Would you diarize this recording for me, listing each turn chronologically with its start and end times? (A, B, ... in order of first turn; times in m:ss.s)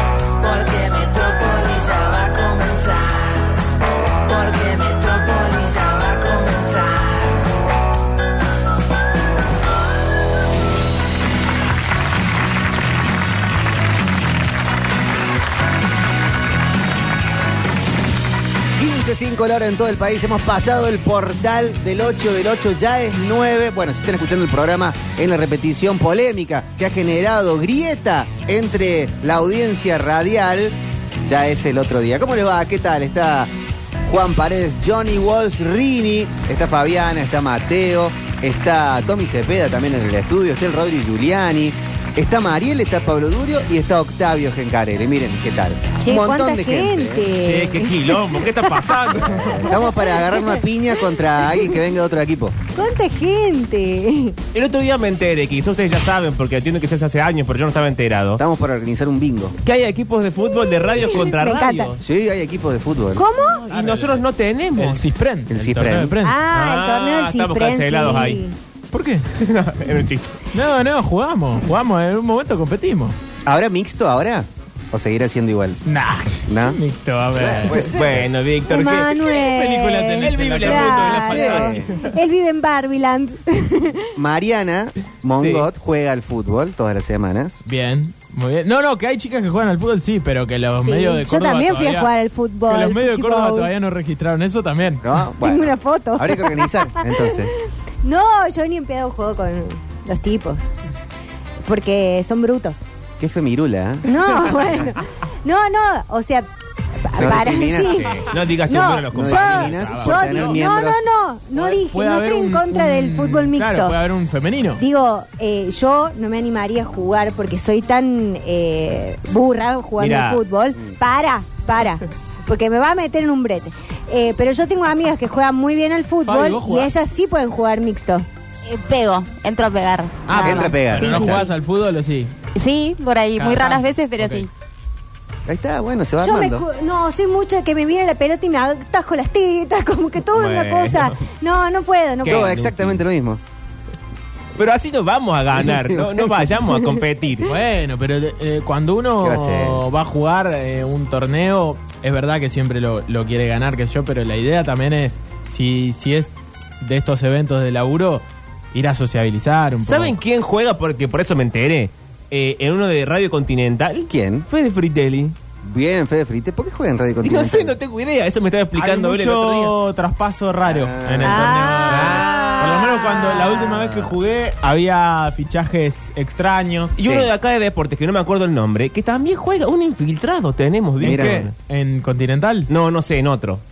0:00.4-0:03.5 A
0:04.3-0:07.4 A
0:18.8-0:33.5 B
0:34.0-0:47.3 B
0:46.0-0:50.6 C
0:47.4-0:49.7 D
0:49.2-0:52.6 B
0:52.8-0:54.4 C
0:54.5-0:58.4 D
0:58.4-0:59.6 B
0:59.6-1:02.0 D
1:00.4-1:01.9 C
1:02.0-1:03.2 B
1:03.2-1:03.6 C
1:03.4-1:05.0 D
1:03.7-1:04.2 E
1:04.8-1:06.4 E
1:05.5-1:06.2 B
1:06.2-1:08.6 C
1:06.5-1:08.4 D
1:08.9-1:09.4 E
1:09.4-1:10.4 D
1:10.5-1:13.2 E
1:13.4-1:15.8 B
1:15.8-1:17.9 E
1:16.5-1:16.8 B
1:17.3-1:18.3 B
1:17.7-1:19.4 D
1:18.7-1:24.1 C
1:19.3-1:21.7 E
1:20.2-1:22.1 D
1:21.2-1:21.9 B
1:24.2-1:27.6 B
1:25.4-1:25.6 D
1:27.6-1:32.1 E
1:30.8-1:33.7 C
1:32.7-1:35.0 E
1:35.0-1:37.5 B
1:35.4-1:37.5 C
1:38.0-1:40.6 C
1:41.6-1:42.8 C
1:43.2-1:44.4 B
1:44.1-1:46.5 C
1:47.0-1:54.0 C
1:47.1-1:48.1 B
1:47.3-1:50.5 D
1:49.1-1:51.0 B
1:51.5-1:54.8 E
1:54.8-2:08.3 C
2:00.0-2:00.4 D
2:06.2-2:06.9 E
2:08.7-2:11.4 A
2:10.3-2:12.4 E
2:10.3-2:11.4 B
2:12.6-2:14.5 A
2:13.4-2:14.5 E
2:15.5-2:16.6 B
2:16.2-2:22.5 C
2:20.3-2:21.2 D
2:22.2-2:23.0 D
2:22.2-2:23.4 B
2:24.6-2:27.5 D
2:25.5-2:26.3 B
2:27.4-2:40.2 E
2:29.2-2:29.8 B
2:39.8-2:45.4 D
2:44.1-2:44.5 B
2:45.6-2:47.8 B
2:47.2-2:49.8 D
2:48.8-2:57.0 E
2:50.6-2:51.6 B
2:51.2-2:53.8 C
2:51.9-2:52.8 D
2:53.8-2:54.1 D
2:57.0-3:01.5 D
2:57.0-2:57.3 B
3:01.0-3:01.5 B
3:01.0-3:02.7 E
3:02.7-3:03.6 D